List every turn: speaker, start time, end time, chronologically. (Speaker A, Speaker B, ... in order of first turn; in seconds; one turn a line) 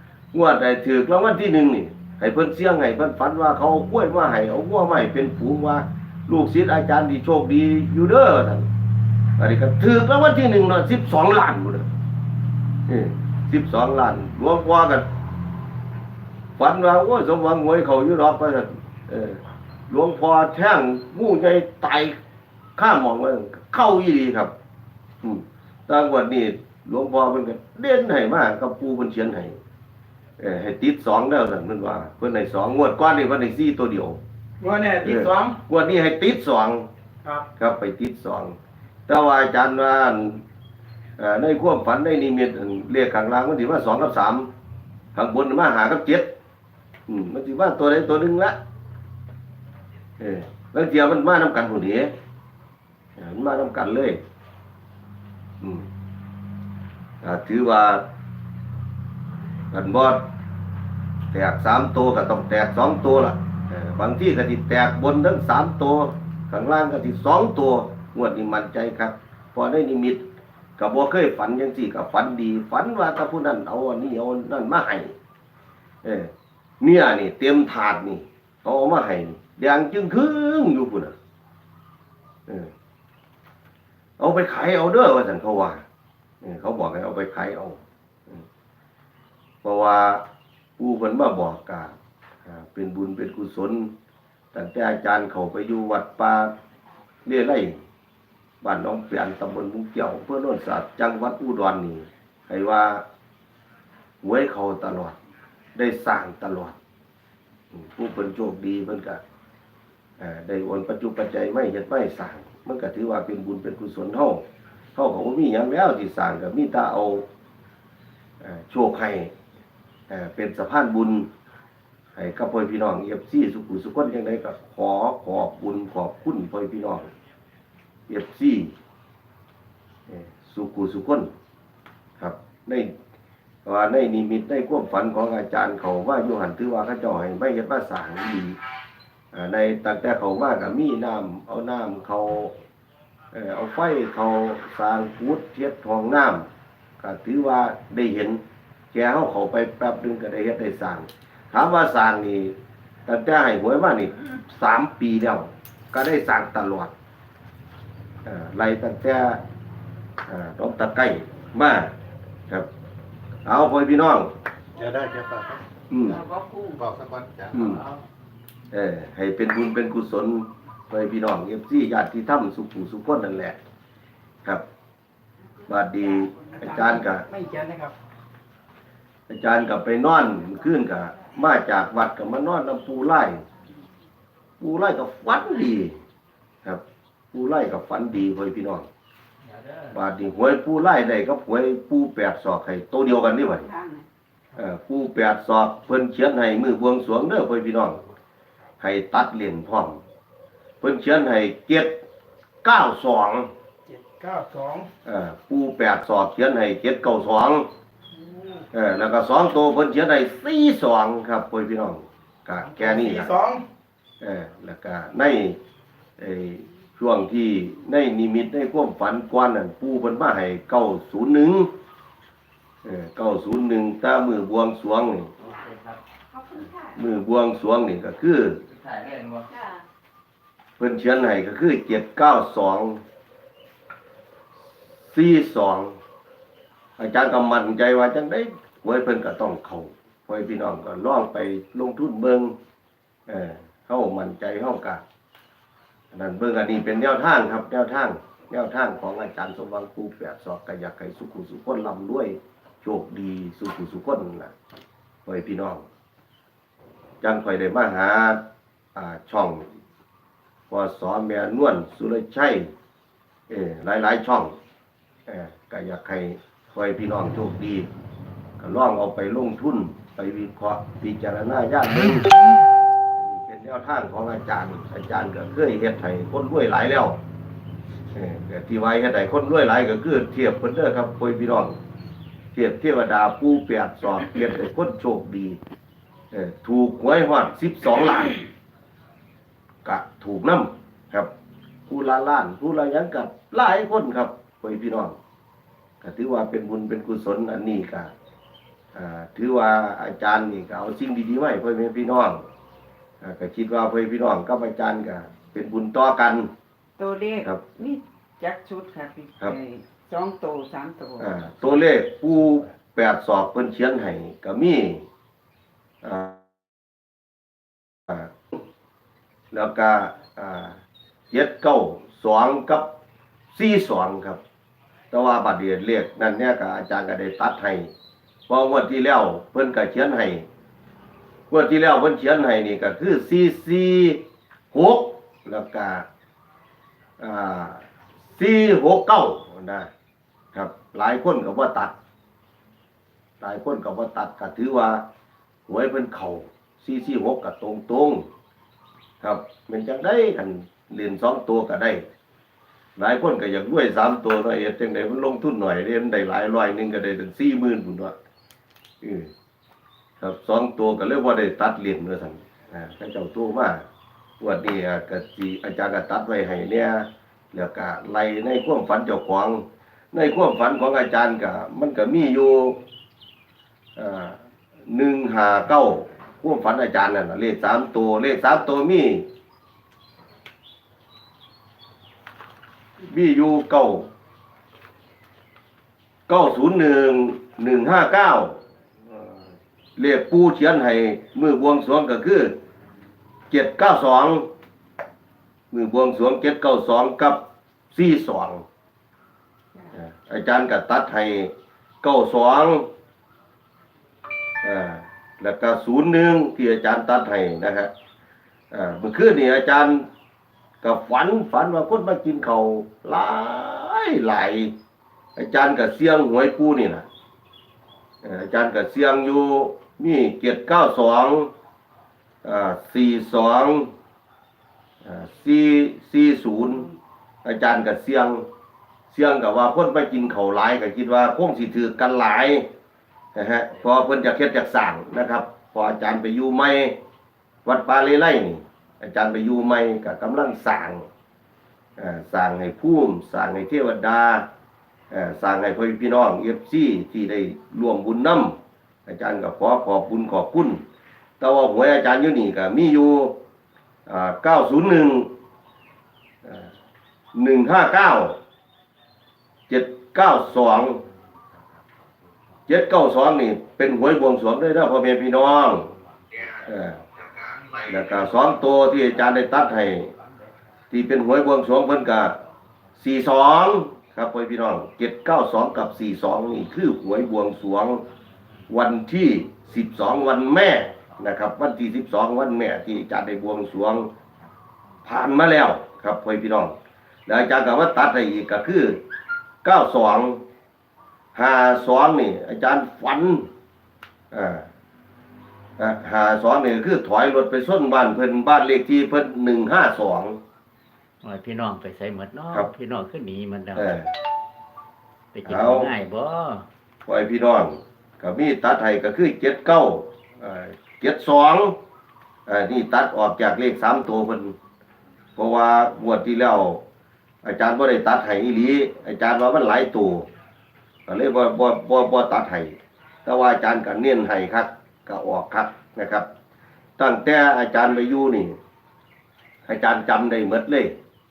Speaker A: 0.3-8.7
Speaker A: 9.4-11.9
Speaker A: 12.9-15.1
Speaker A: 16.6-22.2
Speaker A: 22.8-24.5
Speaker A: 25.2-29.6
Speaker A: 30.4-34.2
Speaker B: 34.6-35.6
Speaker A: 35.0-36.9
Speaker B: 37.2-37.5
Speaker A: 37.6-38.6
Speaker A: 39.1-40.4
Speaker A: 41.2-44.5
Speaker A: 45.1-46.3
Speaker A: 47.1-48.6
Speaker A: 50.2-52.1
Speaker A: 53.2-54.2
Speaker A: 55.6-55.9
Speaker A: 57.2-58.1
Speaker A: 59.7-60.3
Speaker A: 61.3-70.2
Speaker A: 70.8-75.1
Speaker A: 76.0-81.1
Speaker A: 84.2-85.8
Speaker A: 86.4-88.4
Speaker A: 89.6-90.2
Speaker A: 90.8-92.0
Speaker A: 92.5-93.9
Speaker A: 94.5-96.5
Speaker A: 97.2-97.8
Speaker A: 98.6-103.0
Speaker A: 104.2-105.2
Speaker A: 105.8-106.8
Speaker A: 107.7-109.2
Speaker A: 110.2-114.4
Speaker A: 115.0-117.3
Speaker A: 118.4-119.3
Speaker A: 120.1-121.3
Speaker A: 122.2-127.1
Speaker A: 128.1-128.8
Speaker A: 130.1-131.3
Speaker A: 132.2-132.9
Speaker A: 133.7-138.6
Speaker A: 139.3-142.6
Speaker A: 143.3-146.5
Speaker A: 147.0-148.4
Speaker A: 148.9-156.9
Speaker A: 158.2-159.4
Speaker A: 160.3-161.9
Speaker A: 163.4-164.3
Speaker C: 164.8-166.2
Speaker A: 165.9-166.2
Speaker D: 166.1-166.8
Speaker C: 166.8-167.8
Speaker A: 167.5-167.8
Speaker A: 168.7-173.6
Speaker D: 175.6-176.6
Speaker A: 175.7-177.3
Speaker B: 176.6-177.9
Speaker A: 179.3-183.4
Speaker A: 184.6-186.0
Speaker A: 186.6-188.9
Speaker E: 189.5-190.0
Speaker A: 189.9-193.7
Speaker D: 193.1-194.1
Speaker A: 194.6-198.0
Speaker A: 198.8-200.0
Speaker A: 200.8-202.0
Speaker A: 202.6-203.5
Speaker B: 203.9-204.9
Speaker A: 205.1-207.7
Speaker B: 208.2-208.7
Speaker A: 208.7-213.3
Speaker B: 212.6-213.6
Speaker A: 214.2-215.6
Speaker A: 216.2-221.7
Speaker A: 222.8-225.3
Speaker E: 225.4-226.0
Speaker D: 226.3-227.0
Speaker A: 226.9-228.6
Speaker E: 228.7-229.5
Speaker D: 229.5-229.8
Speaker A: 230.8-233.0
Speaker A: 235.0-236.0
Speaker A: 237.0-242.5
Speaker A: 243.3-245.0
Speaker A: 246.1-254.5
Speaker A: 255.3-255.8
Speaker A: 257.2-258.4
Speaker A: 258.9-259.7
Speaker A: 260.7-262.7
Speaker A: 263.5-264.6
Speaker A: 265.3-267.9
Speaker A: 268.6-272.3
Speaker A: 273.1-277.2
Speaker A: 278.1-281.8
Speaker A: 282.5-285.6
Speaker A: 286.3-288.4
Speaker A: 289.8-291.3
Speaker A: 291.9-295.2
Speaker A: 296.0-298.1
Speaker A: 298.9-302.4
Speaker A: 303.2-306.5
Speaker D: 307.0-311.4
Speaker A: 311.2-315.1
Speaker A: 316.0-316.4
Speaker A: 318.1-318.6
Speaker A: 319.5-320.8
Speaker A: 321.3-322.9
Speaker A: 323.5-324.4
Speaker A: 325.1-327.9
Speaker A: 328.5-330.5
Speaker A: 331.5-336.1
Speaker A: 337.2-339.9
Speaker A: 340.5-341.9
Speaker A: 343.4-345.1
Speaker A: 345.7-348.3
Speaker A: 349.2-352.1
Speaker A: 353.0-358.2
Speaker A: 359.0-359.3
Speaker A: 360.2-363.9
Speaker A: 364.4-372.8
Speaker A: 374.0-379.3
Speaker A: 383.0-384.1
Speaker A: 386.3-388.6
Speaker A: 390.0-392.6
Speaker A: 393.5-394.5
Speaker A: 395.7-398.6
Speaker A: 399.9-402.9
Speaker A: 404.6-407.9
Speaker A: 408.7-410.1
Speaker A: 410.8-414.7
Speaker A: 415.4-417.1
Speaker A: 418.2-421.5
Speaker A: 422.4-423.9
Speaker A: 425.0-426.9
Speaker A: 427.4-428.5
Speaker A: 429.1-432.7
Speaker A: 433.4-437.0
Speaker A: 437.6-441.1
Speaker A: 442.0-444.5
Speaker A: 445.1-450.8
Speaker A: 451.4-453.4
Speaker A: 454.1-455.3
Speaker A: 456.4-456.7
Speaker A: 457.3-458.4
Speaker A: 459.7-461.1
Speaker A: 462.7-465.9
Speaker A: 466.6-467.0
Speaker A: 467.9-470.1
Speaker A: 470.9-472.4
Speaker A: 473.0-478.0
Speaker A: 478.7-484.1
Speaker E: 480.9-481.2
Speaker A: 485.1-489.0
Speaker A: 489.6-490.4
Speaker A: 491.4-493.5
Speaker A: 494.3-494.7
Speaker A: 495.8-500.4
Speaker E: 501.2-503.9
Speaker A: 503.8-504.1
Speaker E: 505.3-506.7
Speaker A: 505.5-505.9
Speaker A: 507.1-511.8
Speaker A: 512.5-514.6
Speaker A: 515.4-516.8
Speaker A: 517.4-520.3
Speaker A: 521.1-526.3
Speaker A: 527.0-528.6
Speaker A: 529.7-531.0